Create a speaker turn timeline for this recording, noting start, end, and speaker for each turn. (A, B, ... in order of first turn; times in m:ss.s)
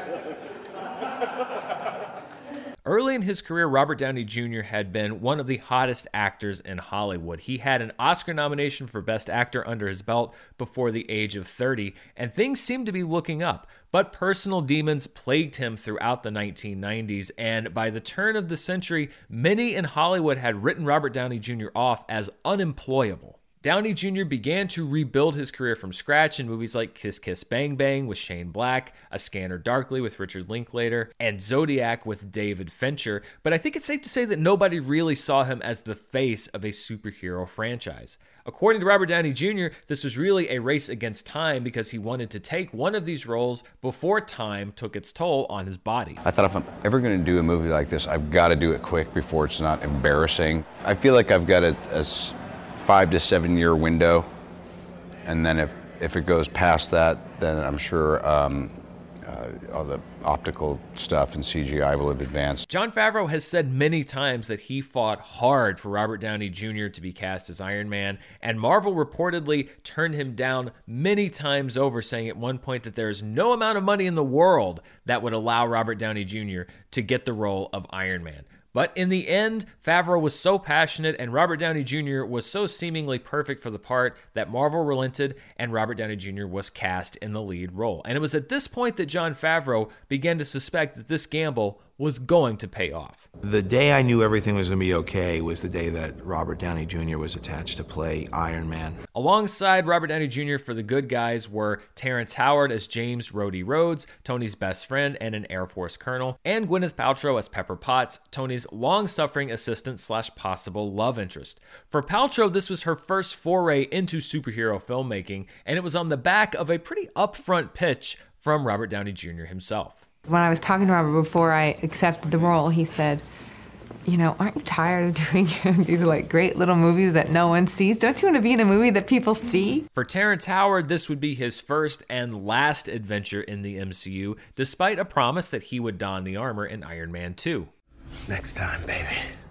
0:02.8-0:46.2 A
0:46.2-0:54.3 B
0:55.2-1:02.6 B
1:02.7-1:33.2 A
1:33.4-1:39.0 C
1:39.1-2:00.0 A
2:00.3-2:03.2 D
2:04.0-2:09.8 D
2:09.9-2:17.7 A
2:18.3-2:19.3 C